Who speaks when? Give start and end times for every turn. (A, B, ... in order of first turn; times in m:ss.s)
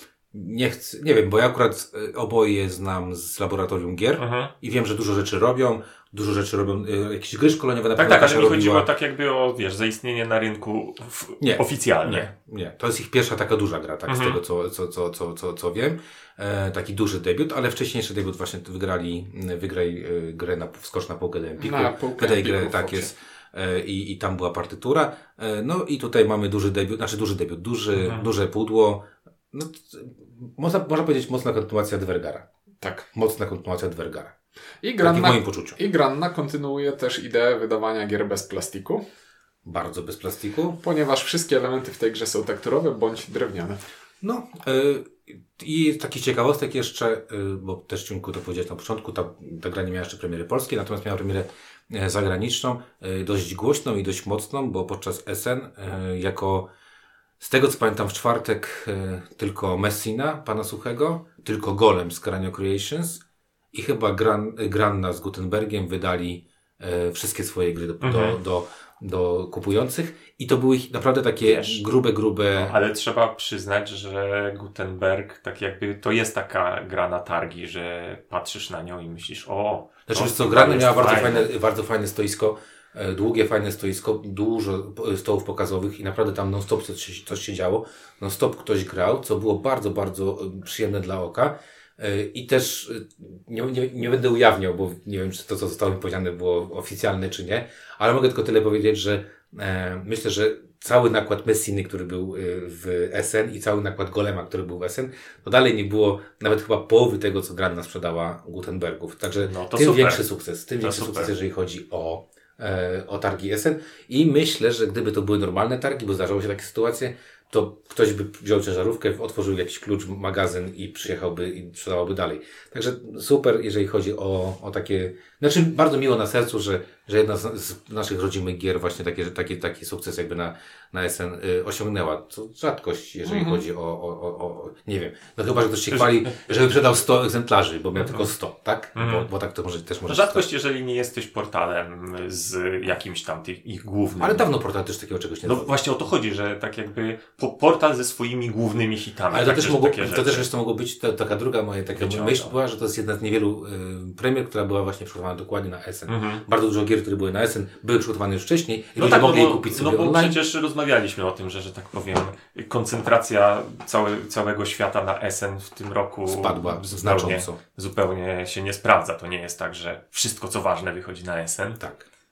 0:00.3-0:08.9 A
0:04.2-0:04.5 B
0:08.0-0:12.3 B
0:11.4-0:32.5 A
0:14.1-0:14.4 B
0:21.6-0:23.1 C
0:28.0-0:28.2 B
0:33.1-0:34.3 A
0:34.8-0:39.0 C
0:35.0-0:35.8 A
0:39.6-0:40.8 A
0:40.8-0:43.8 C
0:44.2-0:56.7 A
0:57.4-1:03.2 A
1:03.7-1:12.7 A
1:08.0-1:08.4 B
1:11.4-1:11.8 B
1:12.5-1:21.5 B
1:20.1-2:20.4 A
1:49.4-1:50.2 B
1:50.8-1:51.3 B
2:13.3-2:13.6 C
2:15.9-2:16.3 B
2:18.0-2:18.3 B
2:19.0-2:19.3 B
2:20.1-2:24.5 B
2:24.2-2:25.7 A
2:25.4-2:30.5 B
2:29.3-2:40.4 A
2:32.0-2:32.5 B
2:36.1-2:36.4 B
2:39.0-2:51.8 B
2:46.3-2:47.6 A
2:51.8-2:52.1 A